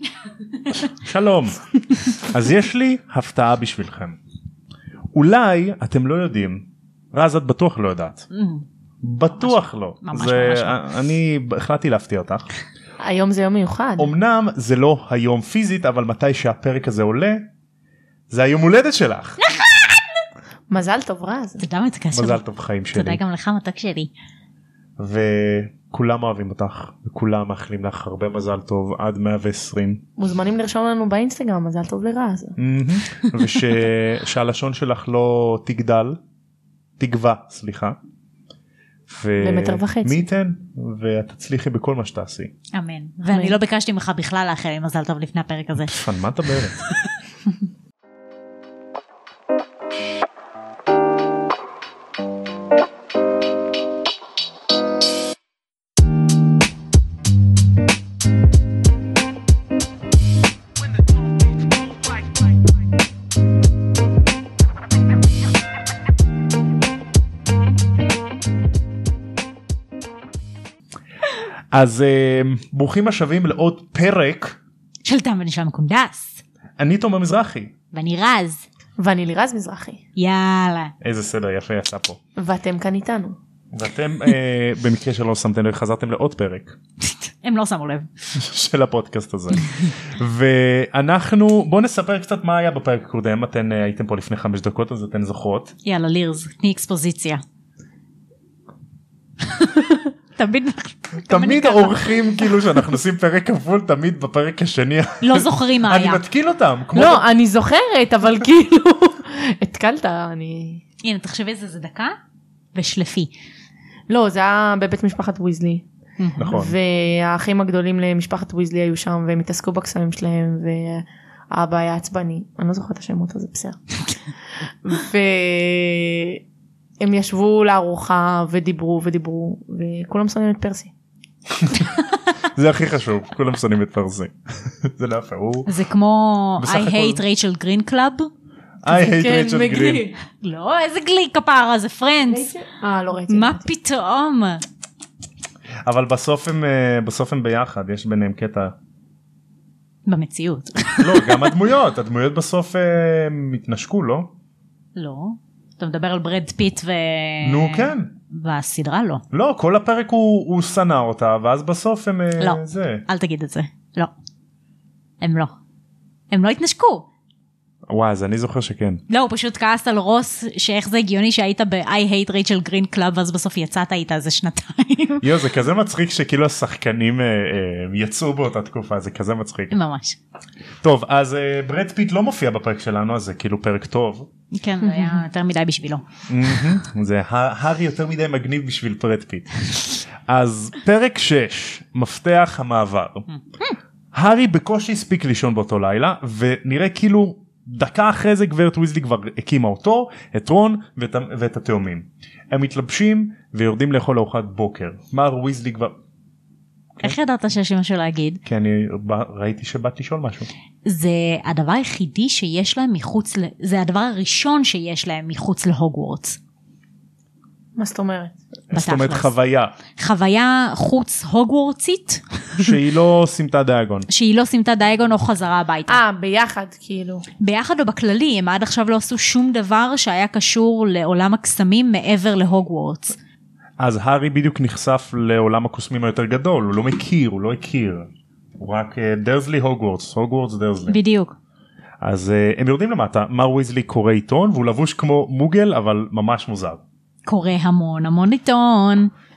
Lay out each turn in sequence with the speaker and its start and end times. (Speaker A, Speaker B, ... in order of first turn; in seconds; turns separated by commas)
Speaker A: 0.7-4.2, Speaker A: 5.1-8.3, Speaker B: 8.3-8.6, Speaker A: 9.0-12.5, Speaker B: 9.4-10.8, Speaker C: 13.0-14.1, Speaker A: 14.0-17.5, Speaker A: 18.3-19.4, Speaker C: 20.7-21.6, Speaker B: 21.6-24.1, Speaker A: 22.1-23.2, Speaker A: 25.0-30.0, Speaker C: 30.2-32.6, Speaker A: 32.6-36.2, Speaker A: 37.0-38.0, Speaker A: 39.1-42.5, Speaker C: 39.4-40.3, Speaker B: 42.7-46.0, Speaker C: 43.3-43.5, Speaker A: 45.9-46.8, Speaker A: 71.7-74.6, Speaker B: 75.0-76.4, Speaker A: 76.8-77.7, Speaker B: 77.9-78.7, Speaker C: 79.0-80.0, Speaker B: 80.2-80.9, Speaker A: 81.0-82.2, Speaker C: 82.4-83.4, Speaker A: 83.7-86.8, Speaker B: 87.1-88.1, Speaker A: 88.3-95.7, Speaker B: 95.8-97.4, Speaker B: 99.4-102.8, Speaker A: 101.3-107.2, Speaker B: 105.2-106.2, Speaker C: 106.9-110.8, Speaker B: 111.0-112.2, Speaker B: 112.7-113.3, Speaker C: 114.1-115.8, Speaker B: 116.2-116.5, Speaker A: 116.4-116.8, Speaker C: 116.4-123.8, Speaker C: 124.8-126.4, Speaker C: 127.0-130.9, Speaker A: 131.6-131.9, Speaker A: 132.4-135.7, Speaker B: 135.7-138.3, Speaker A: 136.6-137.2, Speaker A: 138.8-140.1, Speaker C: 138.9-140.2, Speaker B: 140.3-142.5, Speaker C: 142.2-143.7, Speaker B: 143.3-144.6, Speaker A: 145.8-148.8, Speaker B: 150.1-151.5, Speaker A: 151.0-154.3, Speaker B: 154.9-159.2, Speaker A: 157.4-158.1, Speaker A: 159.3-163.0, Speaker B: 162.4-164.1, Speaker B: 165.2-165.5, Speaker B: 166.3-167.1, Speaker A: 167.9-169.0, Speaker B: 169.1-175.3, Speaker A: 175.2-179.8, Speaker B: 179.7-180.2, Speaker A: 180.8-184.3, Speaker B: 184.5-186.0, Speaker C: 184.8-185.2, Speaker A: 186.3-189.5, Speaker A: 190.2-193.2, Speaker B: 193.3-193.8, Speaker A: 194.1-205.9, Speaker B: 207.0-208.4, Speaker A: 208.4-210.5, Speaker B: 210.8-216.4, Speaker C: 217.8-218.3, Speaker A: 218.7-219.8, Speaker B: 218.7-219.3, Speaker B: 219.9-222.8, Speaker A: 222.6-224.1, Speaker B: 224.1-226.0, Speaker C: 225.9-227.2, Speaker B: 227.4-233.2, Speaker A: 233.8-241.0, Speaker B: 240.9-241.3, Speaker A: 242.0-246.8, Speaker B: 247.2-249.1